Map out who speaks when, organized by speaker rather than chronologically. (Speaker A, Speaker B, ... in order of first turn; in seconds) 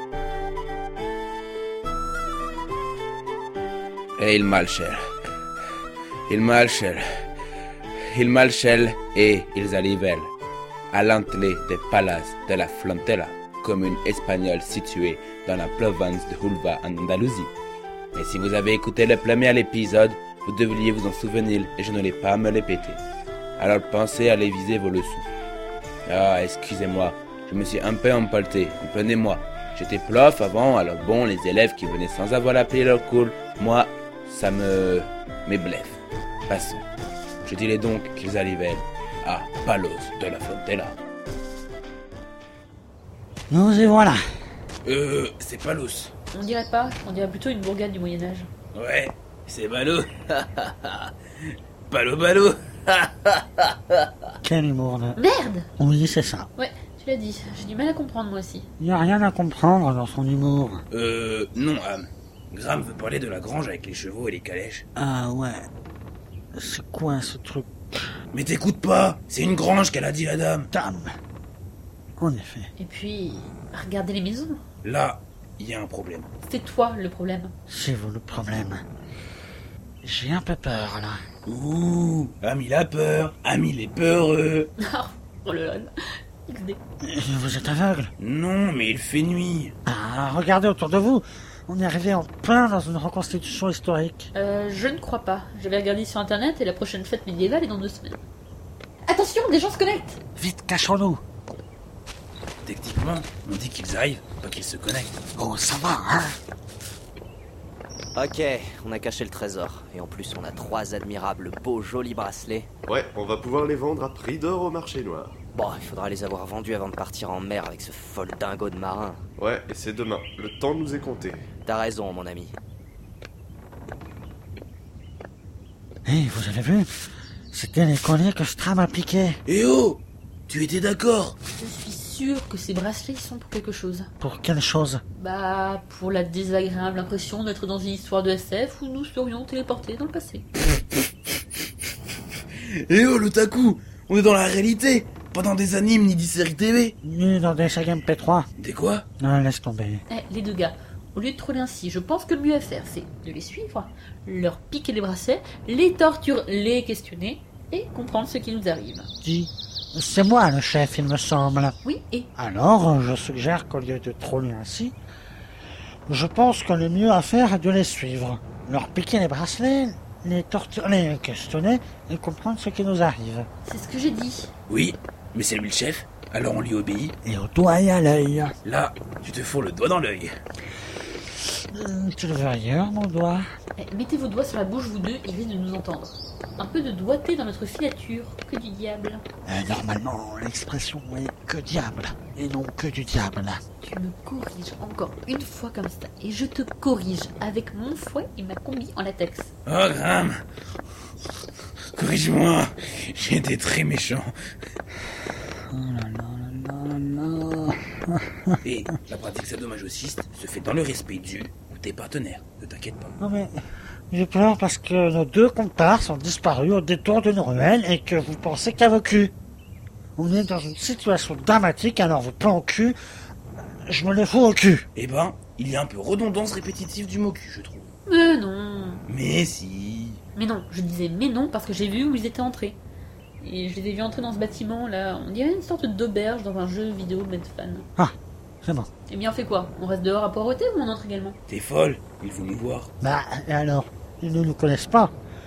Speaker A: 4.2-5.0, 6.3-7.0, 8.1-10.3, 10.9-17.5, 18.1-23.0, 23.6-25.2, 26.1-36.8, 37.4-41.0, 44.8-46.1, 48.7-51.1, 51.9-54.1, 60.9-64.8, 68.3-70.7, 74.8-76.3, 81.5-84.7, 88.2-89.7, 102.6-105.1, 129.5-131.4, 142.8-147.0, 148.6-149.1, 174.7-177.2, 178.6-180.3, 199.7-200.4, 201.9-204.3, 208.6-213.1, 224.9-227.9, 229.1-230.2, 241.5-242.9
Speaker B: 43.5-44.2, 54.4-55.2, 55.8-56.5, 58.8-60.8, 65.0-65.7, 66.5-68.1, 70.7-71.1, 72.2-72.7, 77.7-78.8, 80.0-81.2, 87.0-88.1, 89.9-94.3, 100.4-101.2, 105.4-106.4, 126.0-126.9, 127.5-129.4, 134.2-135.0, 147.0-148.5, 149.2-150.1, 159.2-161.8, 162.3-165.0, 166.1-173.5, 177.2-178.6, 181.5-183.4, 189.5-193.6, 205.7-208.6, 213.2-219.3, 220.2-223.0, 223.9-224.8, 238.0-238.9, 243.0-245.2
Speaker C: 46.3-48.5, 55.2-55.7, 56.6-58.7, 72.8-74.6, 76.4-77.5, 84.8-85.9, 86.5-86.8, 94.3-98.2, 99.1-100.2, 131.6-134.1, 135.1-140.5, 150.1-159.1, 161.8-162.3, 173.7-174.5, 183.8-189.2, 193.8-199.5, 228.1-229.0, 230.3-232.8, 233.4-237.9, 239.1-241.4
Speaker D: 108.2-112.7, 115.5-119.2, 121.7-122.5
Speaker E: 112.9-115.4, 119.4-121.5